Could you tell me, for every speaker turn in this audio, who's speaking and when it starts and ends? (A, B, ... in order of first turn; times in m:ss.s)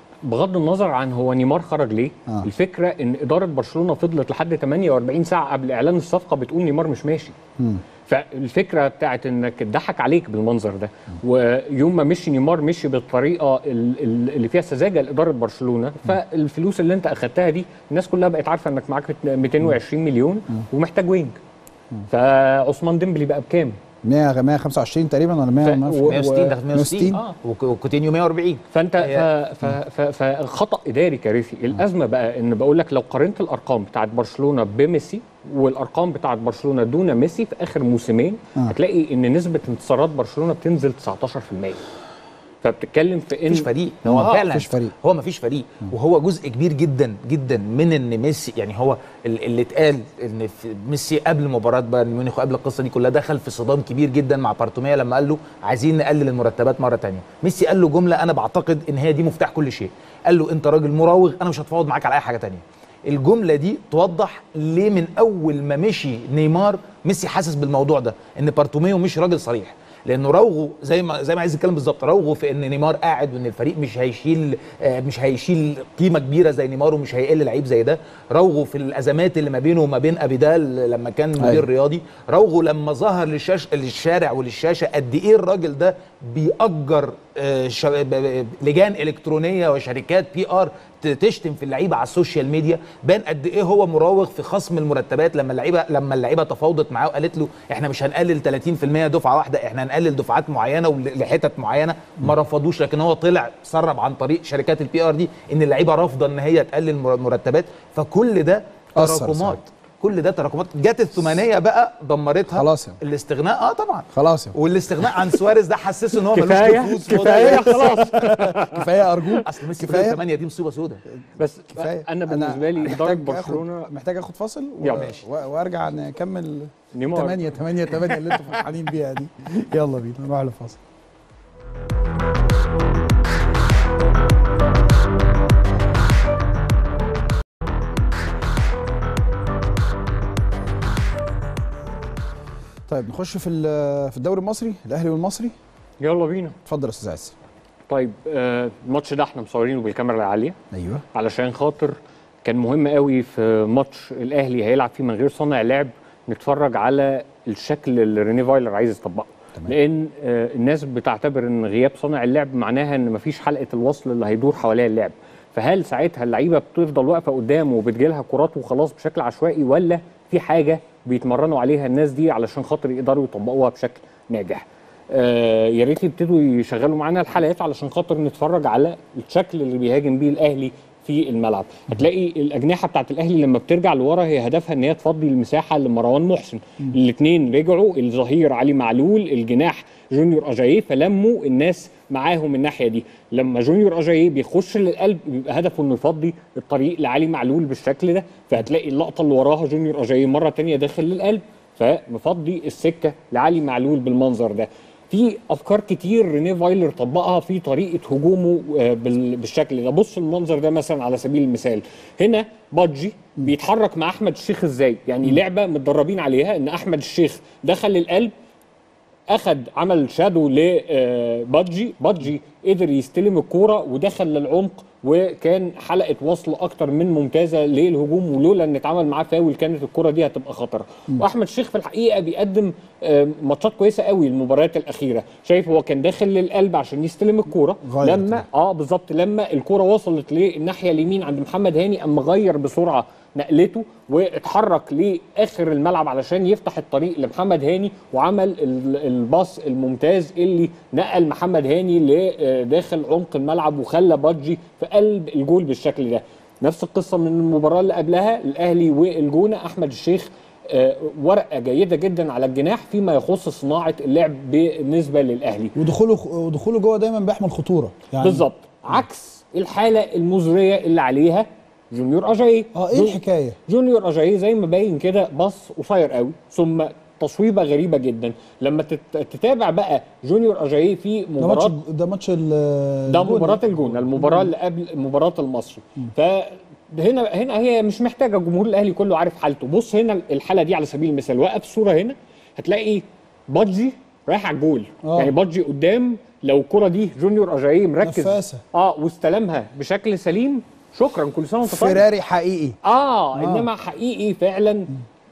0:00.2-0:07.3 A
0:08.1-0:21.4 A
0:22.1-0:23.8 A
0:24.0-0:27.2 B
0:25.6-0:26.5 A
0:26.1-0:29.3 C
0:28.7-0:41.8 A
0:42.6-0:44.4 A
0:43.5-1:58.1 C
0:44.0-0:44.9 B
1:21.4-1:21.6 B
1:49.0-1:49.6 B
1:52.5-1:53.0 B
1:54.1-1:54.5 B
1:56.3-1:59.4 A
1:57.0-2:00.2 B
1:59.5-2:01.0 C
2:01.4-2:03.9 A
2:01.7-2:10.8 B
2:04.9-2:05.2 C
2:06.9-2:07.6 A
2:22.9-2:25.5 B
2:26.0-2:26.6 A
2:26.6-2:27.3 B
2:27.9-2:30.6 A
2:30.7-2:31.0 B
2:31.1-3:38.3 A
3:39.3-4:25.7 A
3:57.8-3:58.5 B
4:25.7-4:29.0 B
4:28.2-4:41.8 A
4:32.7-4:33.6 B
4:41.4-4:44.5 B
4:43.1-5:02.0 A
4:55.0-4:55.3 B
4:58.0-4:58.6 B
5:01.6-5:02.8 B
5:02.8-5:04.9 A
5:03.4-5:03.7 B